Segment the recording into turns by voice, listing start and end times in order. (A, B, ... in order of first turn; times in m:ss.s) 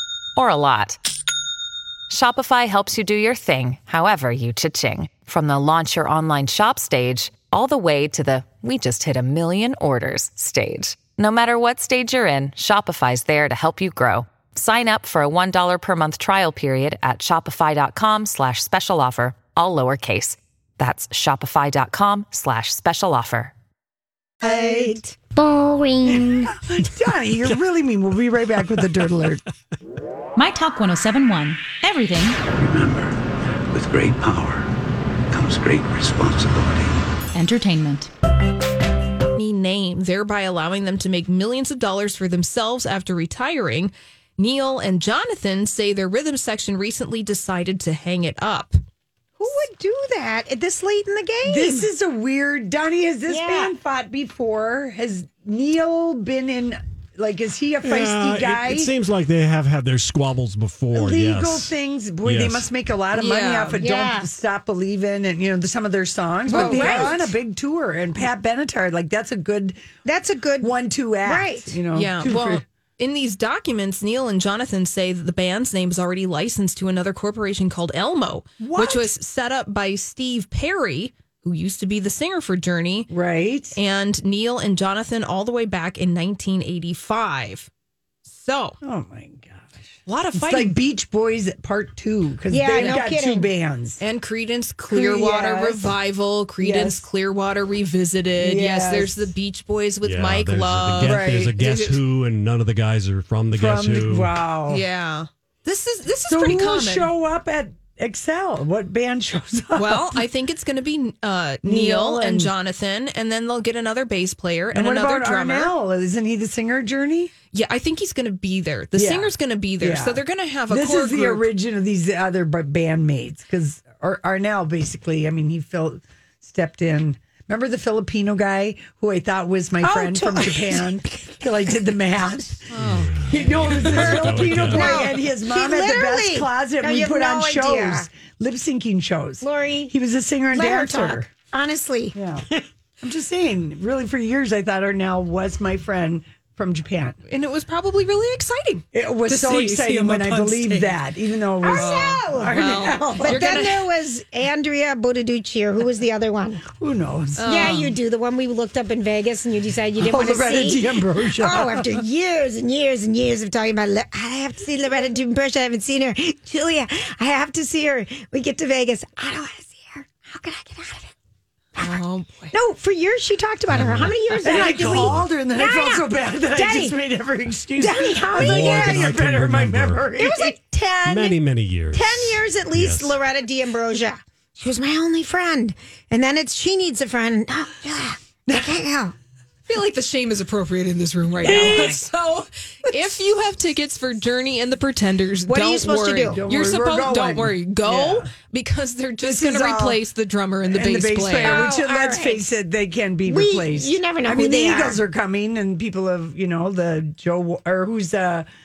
0:00.4-0:01.0 A
0:02.1-0:23.5 A
0:24.4-0:26.3 B
0:24.4-0:25.0 C
0:26.0-0:29.4 C
0:30.4-0:32.4 D
0:32.5-0:33.2 E
0:33.7-0:34.7 E
0:35.3-0:37.0 E
0:37.3-0:38.1 D
0:39.4-0:48.8 F
0:49.4-0:51.9 B
0:51.4-0:58.9 C
0:53.3-0:53.7 B
0:57.8-1:01.7 G
1:00.9-1:09.8 C
1:02.2-1:02.7 G
1:03.1-1:03.8 F
1:03.8-1:04.3 B
1:06.5-1:07.3 B
1:06.5-1:07.2 F
1:10.0-1:10.7 B
1:10.6-1:12.6 C
1:11.2-1:11.8 B
1:11.9-1:23.1 F
1:18.6-1:19.1 C
1:23.1-1:23.8 C
1:23.8-1:27.7 F
1:28.3-1:28.8 F
1:28.8-1:34.0 C
1:30.1-1:30.8 F
1:32.5-1:33.5 B
1:32.7-1:33.0 F
1:34.0-1:42.0 F
1:34.9-1:35.9 C
1:36.6-1:37.1 C
1:38.4-1:39.3 C
1:40.0-1:44.3 G
1:41.0-1:41.6 C
1:43.5-1:44.8 C
1:44.7-1:47.1 F
1:46.2-1:50.2 C
1:49.8-1:55.7 F
1:51.6-1:52.5 C
1:54.7-1:57.3 C
1:57.5-2:01.5 F
1:59.0-2:21.3 C
2:09.8-2:10.9 B
2:12.7-2:14.1 F
2:12.8-2:15.0 G
2:14.6-2:18.1 B
2:19.4-2:19.9 B
2:20.5-2:22.2 B
2:22.2-2:22.5 C
2:23.0-2:27.2 C
2:27.3-2:30.1 F
2:28.9-2:33.6 C
2:29.8-2:30.7 G
2:31.6-2:36.7 B
2:31.6-2:33.9 F
2:36.8-2:37.7 C
2:37.4-2:38.0 F
2:37.5-2:51.1 B
2:40.0-2:42.0 C
2:51.8-2:57.0 B
2:51.8-2:52.5 F
2:53.7-2:55.3 G
2:54.4-3:00.6 C
2:57.8-2:59.1 B
2:58.3-3:00.1 G
3:00.2-3:01.4 B
3:01.1-3:03.2 G
3:01.9-3:09.2 B
3:09.7-3:21.7 F
3:11.4-3:12.1 C
3:15.5-3:16.4 B
3:16.2-3:18.3 C
3:19.2-3:20.0 C
3:20.7-3:28.5 C
3:21.4-3:22.5 B
3:23.3-3:25.0 B